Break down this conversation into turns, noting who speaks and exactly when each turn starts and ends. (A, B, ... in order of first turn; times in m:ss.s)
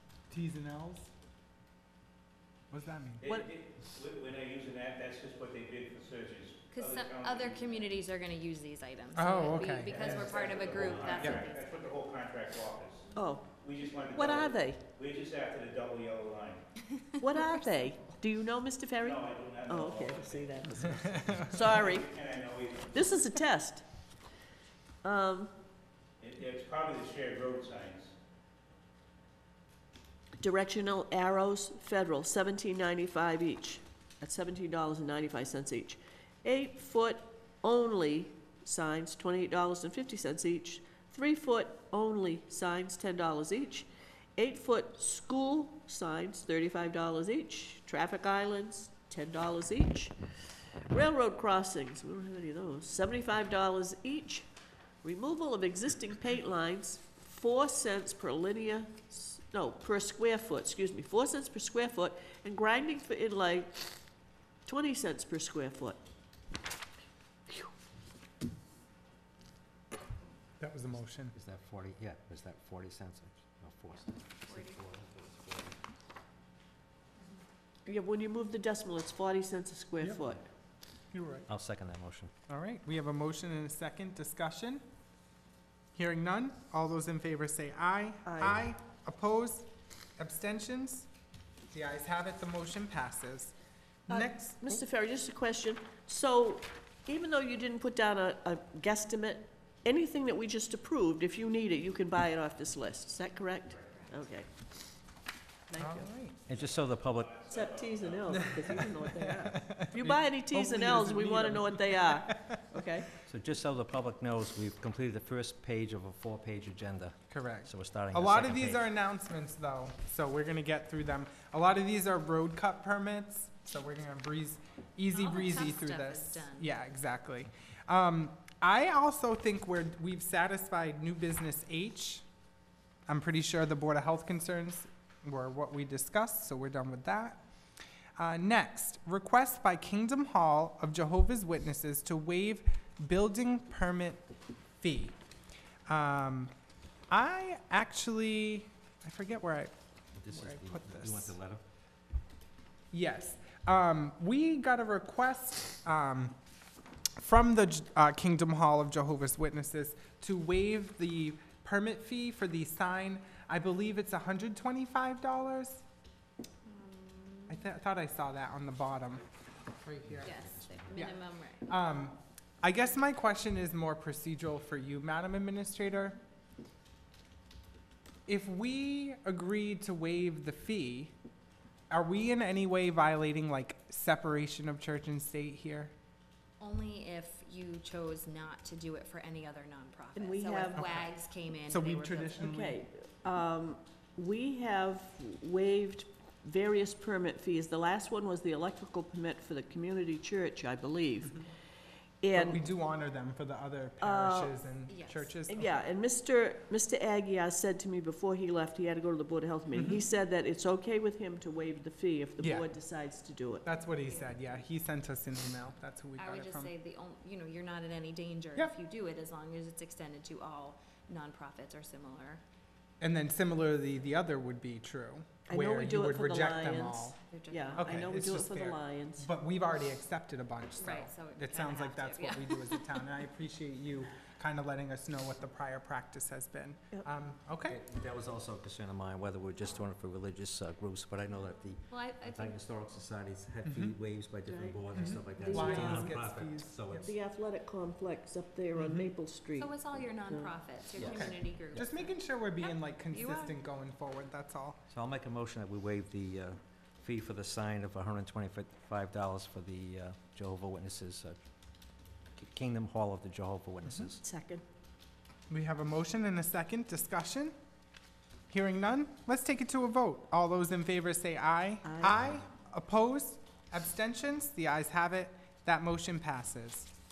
0:00.3-0:01.1 A
0:02.7-0:03.2 A
0:03.2-0:07.9 B
0:06.7-0:11.6 C
0:09.1-0:10.4 A
0:09.7-0:16.6 B
0:11.1-0:11.4 A
0:13.2-0:13.5 D
0:14.1-0:14.8 D
0:17.2-0:22.1 D
0:19.0-0:20.6 B
0:21.1-0:21.5 A
0:21.6-0:23.1 B
0:22.9-0:23.8 D
0:25.0-0:25.5 D
0:26.2-0:28.1 B
0:30.4-0:50.2 D
0:50.9-0:54.5 D
0:55.0-1:03.8 D
1:04.7-1:06.0 D
1:10.6-1:11.4 A
1:11.3-1:15.8 E
1:13.9-1:14.8 C
1:17.8-1:20.4 D
1:21.1-1:21.5 A
1:21.5-1:22.3 E
1:22.5-1:24.8 A
1:25.9-1:31.1 A
1:28.3-1:28.6 D
1:31.7-1:33.6 A
1:34.1-1:34.8 A
1:34.1-1:44.5 D
1:45.7-1:46.1 D
1:45.8-1:46.5 A
1:46.5-1:47.4 E
1:46.5-1:48.6 B
1:47.5-1:53.1 D
1:48.3-1:52.6 A
1:53.2-1:58.8 E
1:57.3-2:12.2 A
2:05.1-2:06.7 C
2:13.1-2:17.4 A
2:18.2-2:24.2 A
2:24.8-2:25.2 A
2:25.9-2:26.5 A
2:27.1-2:29.7 A
2:30.2-2:31.6 E
2:30.3-2:31.4 A
2:32.9-2:36.4 A
2:37.2-2:45.8 A
2:46.6-2:47.7 C
2:47.5-2:49.2 A
2:49.8-2:56.2 A
2:50.0-2:50.9 E
2:50.2-2:51.7 C
2:58.3-3:01.1 A
3:01.9-3:05.9 A
3:06.6-3:12.5 C
3:10.2-3:10.9 D
3:10.8-3:11.1 A
3:11.7-3:12.8 A
3:12.4-3:21.5 D
3:22.2-3:22.6 D
3:22.3-3:25.7 A
3:24.0-3:24.6 D
3:24.9-3:25.4 C
3:25.5-3:33.7 D
3:29.7-3:30.0 A
3:32.4-3:32.7 A
3:33.6-3:36.7 A
3:34.0-3:34.4 C
3:36.2-3:42.4 C
3:43.0-3:47.2 A
3:45.5-3:49.3 D
3:47.3-3:47.9 C
3:47.8-3:57.8 A
3:50.8-3:53.1 C
3:57.7-4:07.1 E
4:01.9-4:02.6 C
4:03.6-4:04.0 A
4:04.5-4:06.2 D
4:04.9-4:07.1 A
4:07.0-4:10.5 D
4:08.8-4:09.1 A
4:09.6-4:13.6 C
4:11.0-4:11.3 E
4:11.0-4:14.8 A
4:14.9-4:21.4 E
4:22.4-4:24.2 E
4:23.8-4:24.1 A
4:24.2-4:24.6 D
4:25.5-4:27.5 A
4:28.5-4:36.9 A
4:31.8-4:32.2 D